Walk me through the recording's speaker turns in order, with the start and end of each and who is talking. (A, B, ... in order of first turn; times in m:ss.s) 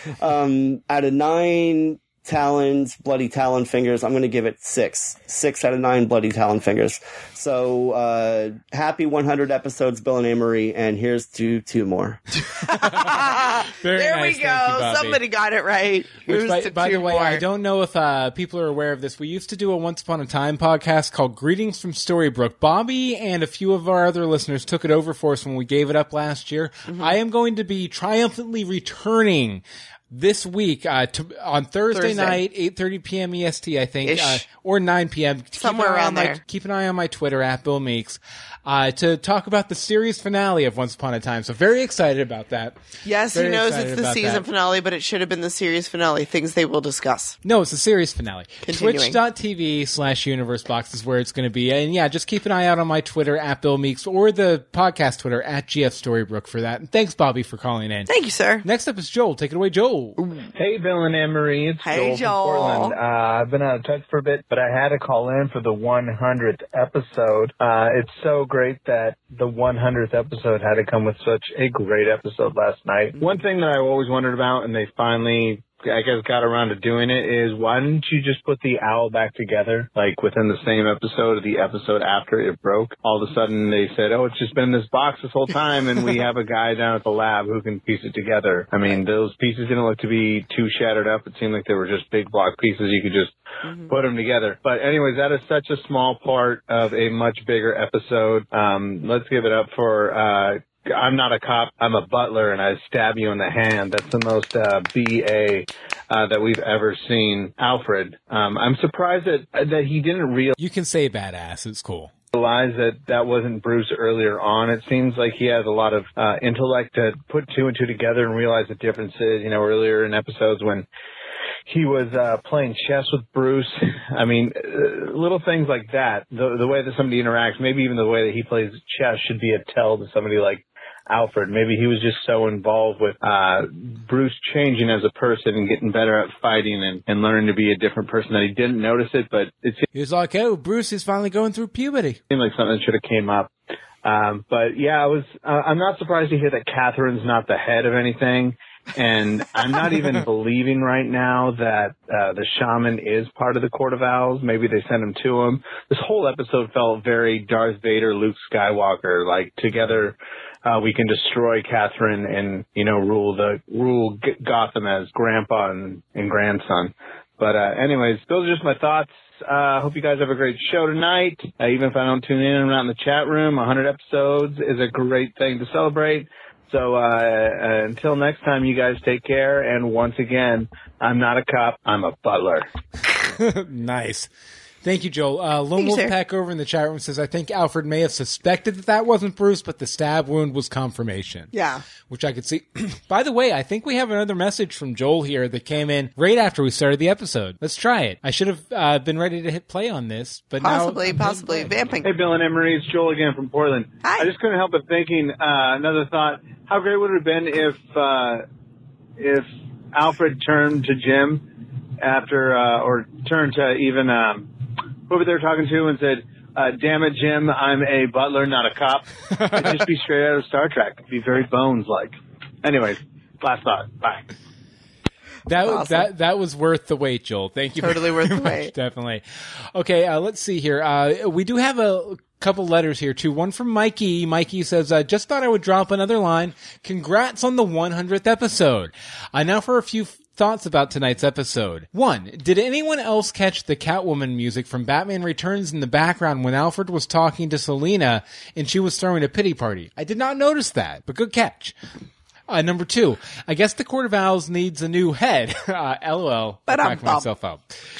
0:00.2-0:12.2 A
0:12.5-0:17.4 B
0:12.7-0:15.2 C
0:16.2-0:42.8 C
0:26.9-0:27.1 B
0:31.9-0:32.4 B
0:34.0-0:34.4 B
0:35.6-0:36.4 B
0:43.0-0:47.4 B
0:43.3-0:44.4 C
0:47.4-0:58.1 C
0:48.6-0:49.2 B
0:58.1-0:58.6 B
0:58.6-1:00.2 C
1:00.2-1:00.5 B
1:00.6-1:33.3 D
1:01.8-1:03.0 B
1:33.6-1:33.9 B
1:33.9-1:50.5 D
1:50.6-1:52.1 C
1:52.3-2:00.9 D
2:01.7-2:19.8 D
2:19.9-2:22.2 C
2:22.3-2:23.5 D
2:24.0-3:02.7 D
3:03.3-3:04.3 C
3:04.8-3:11.5 C
3:05.8-3:06.1 B
3:11.5-3:11.8 B
3:12.1-3:21.7 C
3:20.6-3:22.1 B
3:22.0-3:28.4 D
3:24.0-3:24.3 B
3:29.2-3:31.4 D
3:32.0-3:34.5 D
3:35.1-3:44.2 D
3:39.3-3:39.7 C
3:45.5-3:49.2 C
3:45.6-3:46.1 B
3:47.8-3:48.7 B
3:49.7-4:11.7 C
4:12.5-4:17.6 C
4:16.7-4:17.3 B